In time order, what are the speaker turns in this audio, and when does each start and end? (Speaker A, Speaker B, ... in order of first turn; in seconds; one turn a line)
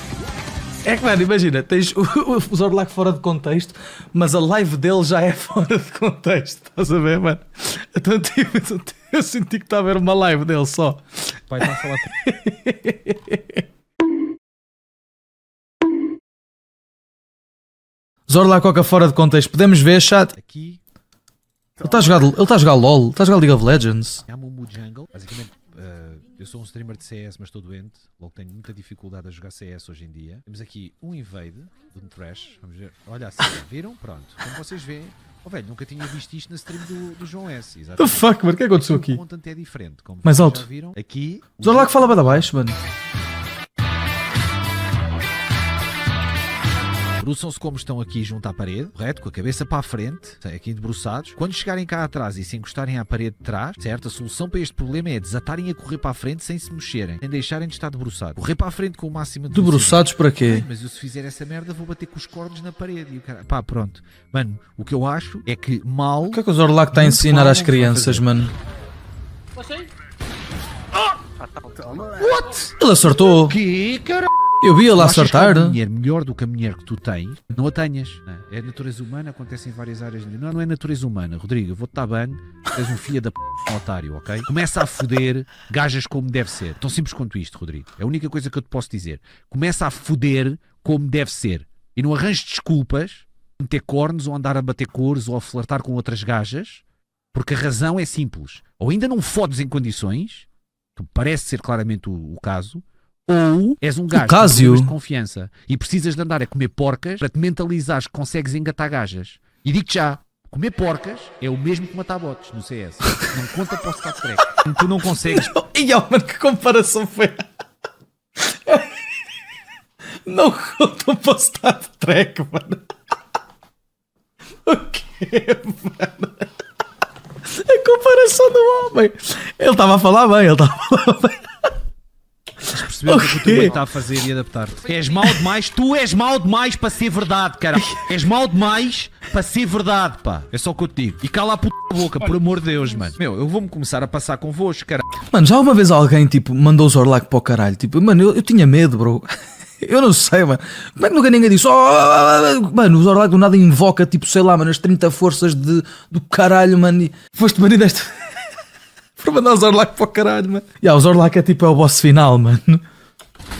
Speaker A: 0.8-13.6
Speaker B: 11.5-12.1
Speaker A: 18.3-20.3
Speaker B: 20.4-20.8
Speaker A: 21.8-24.2
Speaker B: 24.3-42.5
Speaker A: 38.0-39.2
Speaker A: 40.2-40.6
Speaker A: 41.6-42.8
Speaker B: 47.2-68.3
Speaker A: 59.5-60.7
Speaker A: 66.3-68.5
Speaker B: 72.2-72.7
Speaker A: 72.4-73.5
Speaker B: 73.4-74.3
Speaker A: 74.6-75.8
Speaker B: 74.9-115.6
Speaker A: 104.1-104.9
Speaker A: 115.3-117.5
Speaker A: 118.4-118.9
Speaker A: 120.3-122.8
Speaker A: 124.7-126.6
Speaker A: 127.5-131.5
Speaker A: 132.6-133.8
Speaker B: 132.7-145.1
Speaker A: 137.8-138.1
Speaker A: 145.3-158.2
Speaker A: 159.2-162.8